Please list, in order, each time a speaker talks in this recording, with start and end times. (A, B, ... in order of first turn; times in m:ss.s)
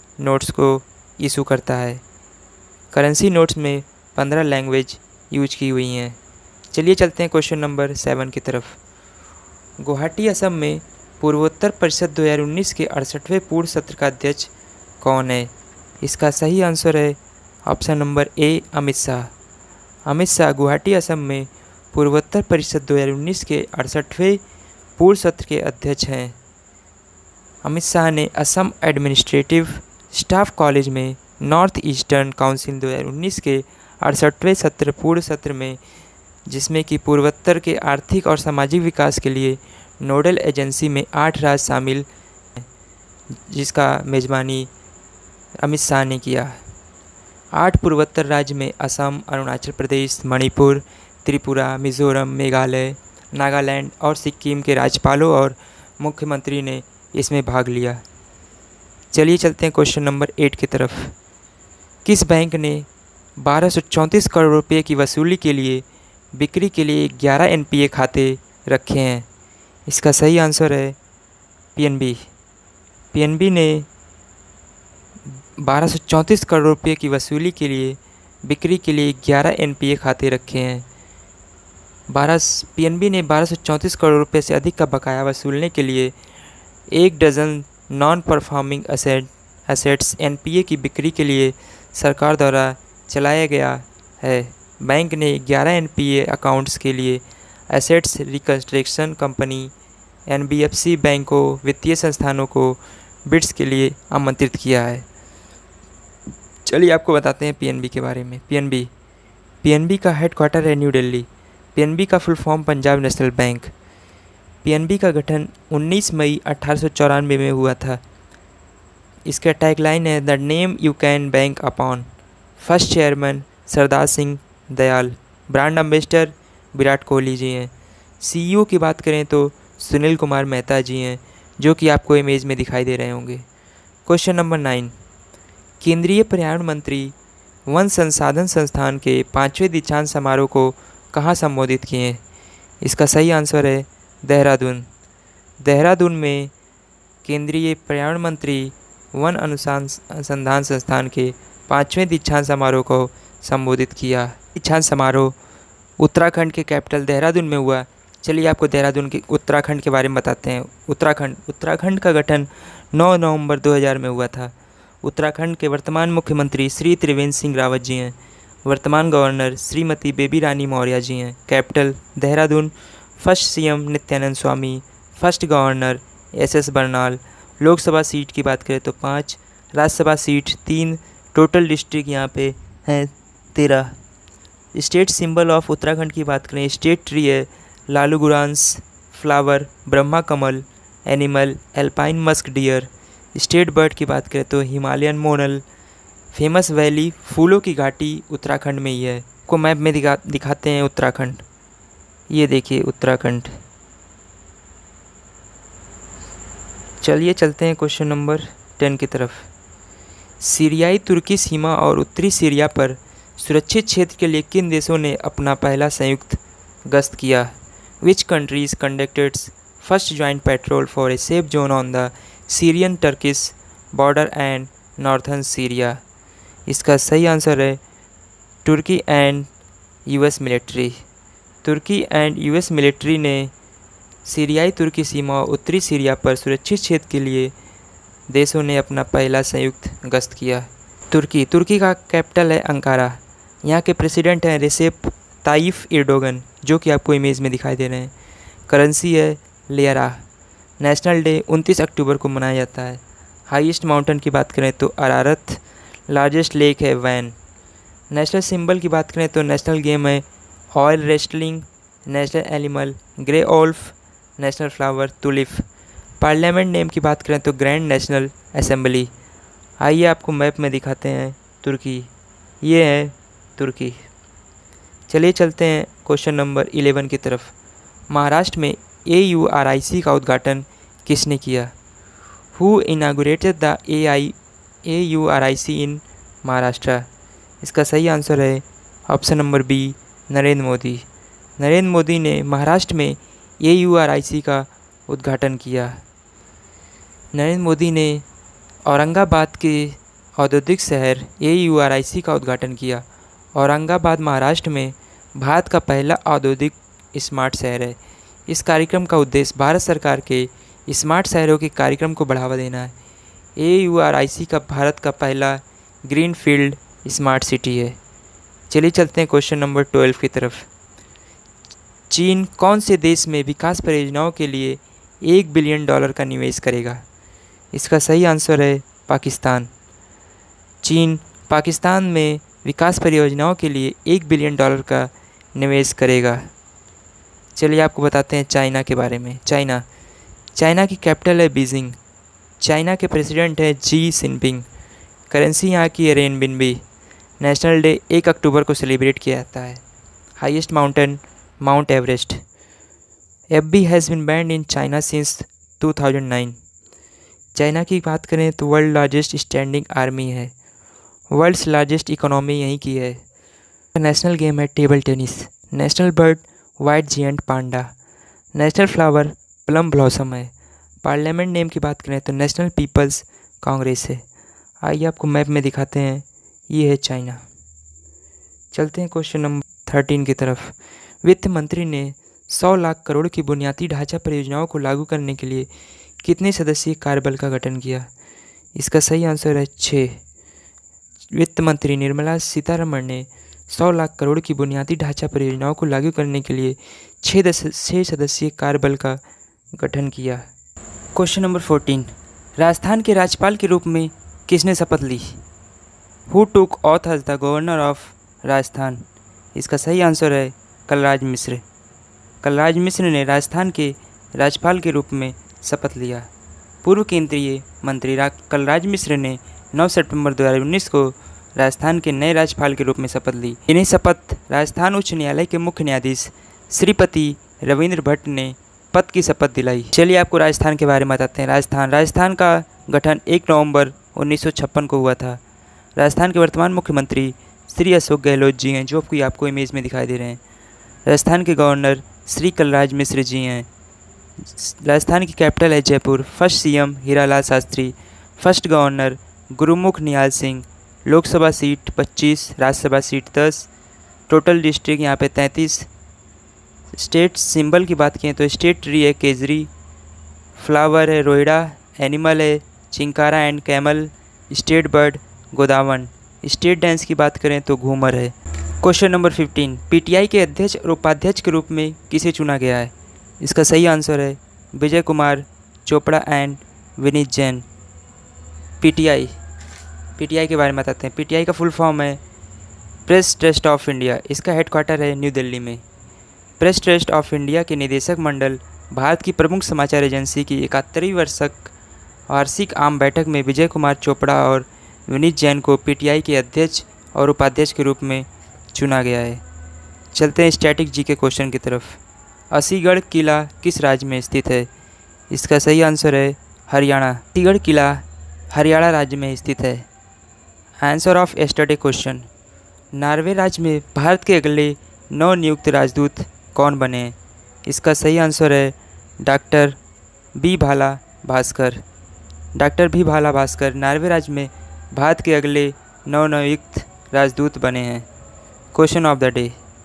0:00.2-0:02.0 A
0:02.9-0:06.2 A
0:06.7-0:08.8 A
0:09.8-0:15.5 A
0:16.0-0:19.3 A
0:20.1-0:24.4 A
0:25.0-0:26.4 A
0:27.6-0:35.8 A
0:36.5-0:42.1 A
0:43.4-0:44.7 A
0:45.6-0:46.6 A
0:47.5-0:58.0 A
0:59.1-1:01.1 A
1:02.0-1:09.2 A
1:09.9-1:11.0 A
1:11.8-1:12.2 A
1:13.1-1:13.9 A
1:15.6-1:20.8 A
1:22.1-1:26.1 A
1:26.9-1:39.7 A
1:40.3-1:45.0 A
1:46.6-1:48.9 A
1:49.6-1:53.7 A
1:54.6-1:58.0 A
1:59.2-2:02.1 A
2:02.6-2:13.4 A
2:14.0-2:14.9 A
2:15.8-2:22.2 A
2:22.8-2:24.9 A
2:25.6-2:26.5 A
2:27.2-2:35.4 A
2:36.0-3:03.9 A
3:04.7-3:15.6 A
3:16.3-3:21.4 A
3:22.3-3:23.5 A
3:27.0-3:29.5 A
3:30.4-3:46.0 A
3:46.7-3:47.8 A
3:48.6-3:49.5 A
3:50.0-3:51.0 A
3:51.6-3:53.5 A
3:54.2-3:57.5 A
3:58.3-4:08.1 A
4:08.7-4:10.2 A
4:10.8-4:17.4 A
4:18.1-4:25.6 A
4:26.2-4:29.1 A
4:29.8-4:32.1 A
4:32.6-4:34.0 A
4:35.1-4:37.5 A
4:38.1-4:41.7 A
4:42.5-4:47.0 A
4:47.6-4:51.0 A
4:51.6-4:56.0 A
4:57.3-4:58.2 A
4:58.9-5:12.9 A
5:13.6-5:18.0 A
5:18.7-5:20.7 A
5:22.1-5:27.0 A
5:27.7-5:29.7 A
5:30.8-5:36.5 A
5:37.6-5:39.8 A
5:40.5-5:42.0 A
5:42.6-5:44.6 A
5:45.3-5:46.8 A
5:47.4-5:49.8 A
5:50.4-5:52.4 A
5:53.5-5:56.6 A
5:57.5-6:00.5 A
6:01.3-6:03.2 A
6:03.9-6:07.9 A
6:08.5-6:10.5 A
6:11.0-6:14.2 A
6:14.8-6:17.4 A
6:18.7-6:25.7 A
6:26.2-6:28.1 A
6:28.8-6:30.2 A
6:31.3-6:39.2 A
6:39.8-6:40.4 A
6:41.1-6:45.4 A
6:46.3-6:51.6 A
6:52.4-6:56.3 A
6:56.8-7:15.4 A
7:16.0-7:20.4 A
7:21.0-7:23.7 A
7:24.4-7:33.7 A
7:34.3-7:35.9 A
7:36.9-7:39.7 A
7:40.6-7:57.6 A
7:58.8-7:59.3 A
8:00.2-8:02.2 A
8:03.0-8:05.8 A
8:06.6-8:11.7 A
8:12.3-8:19.4 A
8:20.1-8:22.0 A
8:22.5-8:24.7 A
8:25.3-8:29.8 A
8:30.8-8:32.3 A
8:32.9-8:39.8 A
8:40.3-8:41.8 A
8:42.5-8:48.1 A
8:48.7-8:49.6 A